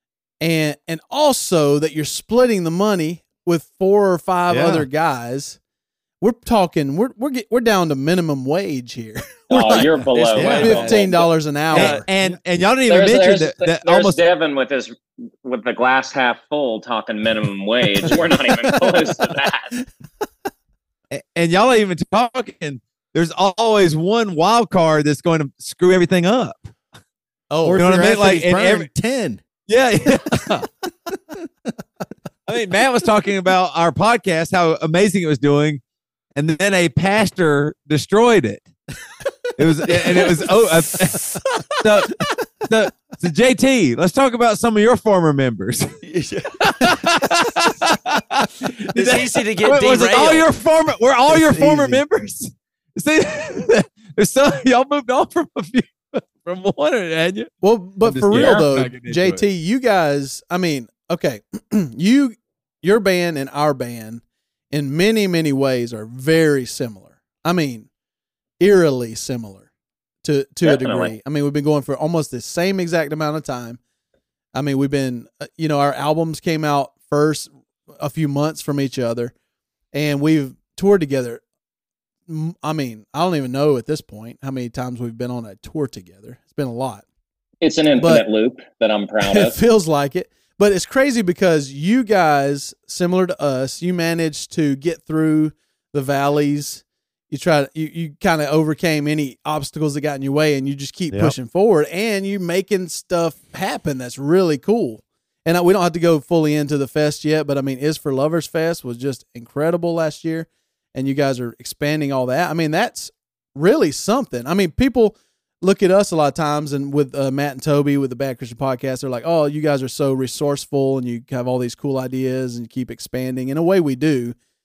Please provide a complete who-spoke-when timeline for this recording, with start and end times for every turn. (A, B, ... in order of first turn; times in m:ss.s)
0:00.4-0:05.6 A
0:04.5-0:04.9 B
0:06.2-0:09.5 A
0:09.5-0:11.3 C
0:09.5-0:11.0 D
0:10.4-0:10.8 B
0:10.4-0:12.1 A
0:11.7-0:14.2 B
0:11.7-0:12.0 D
0:12.9-0:19.7 C
0:21.1-0:26.7 B
0:27.5-0:27.9 A
0:27.6-0:29.5 E
0:27.7-0:28.9 B
0:29.6-0:30.6 B
0:30.4-0:30.6 E
0:32.5-0:35.8 B
0:36.3-0:38.7 B
0:39.6-0:45.9 B
0:46.0-0:46.6 D
0:46.6-0:57.5 B
0:48.9-0:50.5 D
0:51.4-0:52.0 A
0:57.6-1:07.9 A
0:58.0-0:59.4 B
1:08.6-1:09.7 A
1:10.2-1:13.8 A
1:10.6-1:11.1 C
1:14.5-1:19.3 A
1:19.9-1:21.4 A
1:22.3-1:27.0 A
1:27.6-1:29.6 C
1:28.0-1:28.2 A
1:29.3-2:04.4 A